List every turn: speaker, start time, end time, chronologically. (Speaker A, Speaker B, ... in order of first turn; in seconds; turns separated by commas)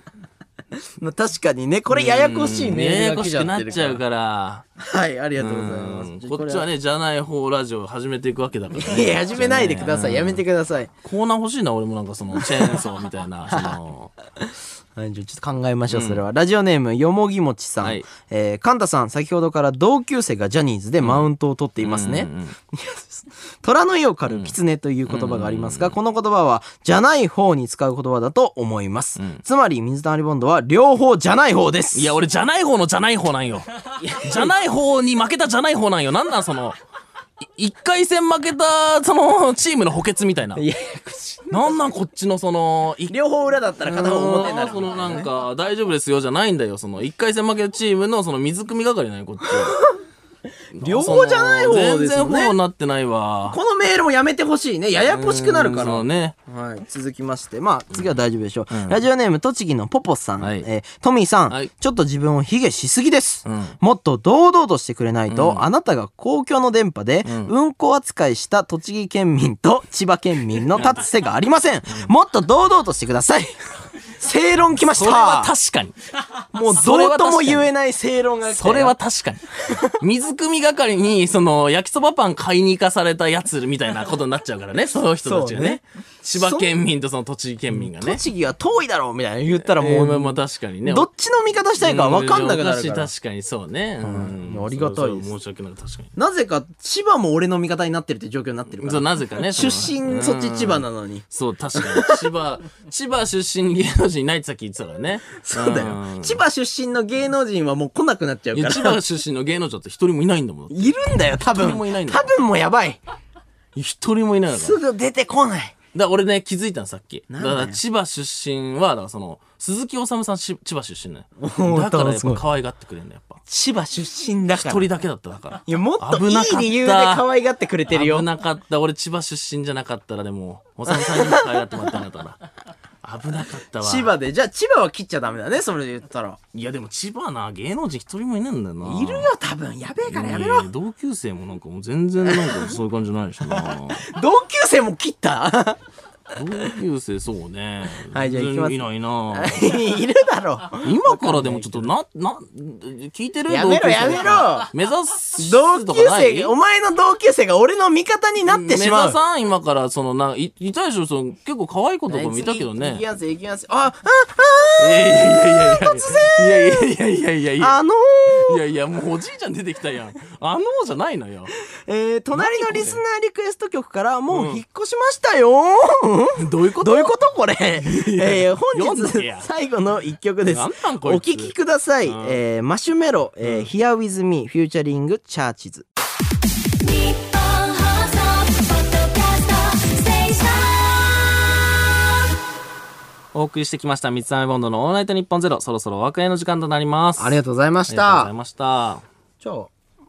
Speaker A: 1.0-4.0, Speaker B: 1.9-4.7, Speaker A: 4.8-6.7, Speaker B: 5.4-10.4, Speaker A: 8.8-10.9, Speaker B: 11.0-14.1, Speaker A: 12.4-12.8, Speaker A: 13.5-13.8, Speaker A: 14.4-32.2, Speaker B: 15.9-16.2, Speaker B: 17.8-18.1, Speaker B: 21.0-21.3, Speaker B: 21.8-22.6, Speaker B: 24.3-24.6, Speaker B: 25.1-25.9, Speaker B: 31.9-36.8, Speaker A: 34.0-34.5, Speaker B: 37.4-40.7, Speaker A: 40.6-41.9, Speaker B: 41.5-43.1, Speaker A: 43.1-45.3, Speaker B: 43.8-49.8, Speaker A: 49.4-50.0, Speaker B: 50.8-53.6, Speaker A: 50.8-52.6, Speaker A: 53.5-75.5, Speaker B: 55.1-56.4, Speaker B: 58.7-59.0, Speaker B: 60.4-60.7, Speaker B: 63.5-63.8, Speaker B: 65.3-65.7, Speaker B: 67.2-67.5, Speaker B: 70.8-71.0, Speaker B: 74.8-76.0, Speaker A: 76.5-79.0, Speaker B: 76.6-77.7, Speaker B: 78.5-88.2, Speaker A: 79.7-80.0, Speaker A: 85.2-85.8, Speaker A: 86.3-86.7, Speaker A: 87.7-93.1, Speaker B: 89.7-91.1, Speaker B: 91.8-96.1, Speaker A: 94.0-95.3, Speaker A: 96.2-102.3, Speaker B: 98.8-106.4, Speaker A: 105.4-109.0, Speaker B: 108.5-112.3, Speaker A: 110.7-113.0, Speaker B: 113.8-114.8, Speaker A: 114.5-115.8, Speaker B: 115.9-123.4, Speaker A: 117.3-117.8, Speaker A: 121.4-122.4, Speaker A: 123.5-124.9, Speaker B: 124.6-127.2, Speaker A: 125.7-128.3, Speaker B: 127.9-132.4, Speaker A: 130.9-131.6, Speaker B: 133.0-134.1, Speaker A: 133.8-136.4, Speaker B: 136.5-139.3, Speaker A: 138.8-140.7, Speaker B: 140.1-144.1, Speaker A: 142.2-142.7, Speaker A: 143.5-145.8, Speaker B: 146.3-149.8, Speaker A: 148.1-151.9, Speaker B: 150.8-156.5, Speaker A: 153.5-154.7, Speaker A: 155.4-159.2, Speaker B: 158.5-163.0, Speaker A: 162.1-166.9, Speaker B: 164.8-171.5, Speaker A: 167.6-168.6, Speaker A: 171.8-185.8, Speaker B: 172.3-173.0, Speaker B: 174.3-174.6, Speaker B: 176.4-177.1, Speaker B: 177.8-179.5, Speaker B: 180.5-181.5, Speaker B: 182.1-182.4, Speaker B: 183.4-183.7, Speaker C: 186.8-191.3, Speaker B: 193.3-199.1, Speaker A: 197.2-198.3, Speaker A: 199.4-199.7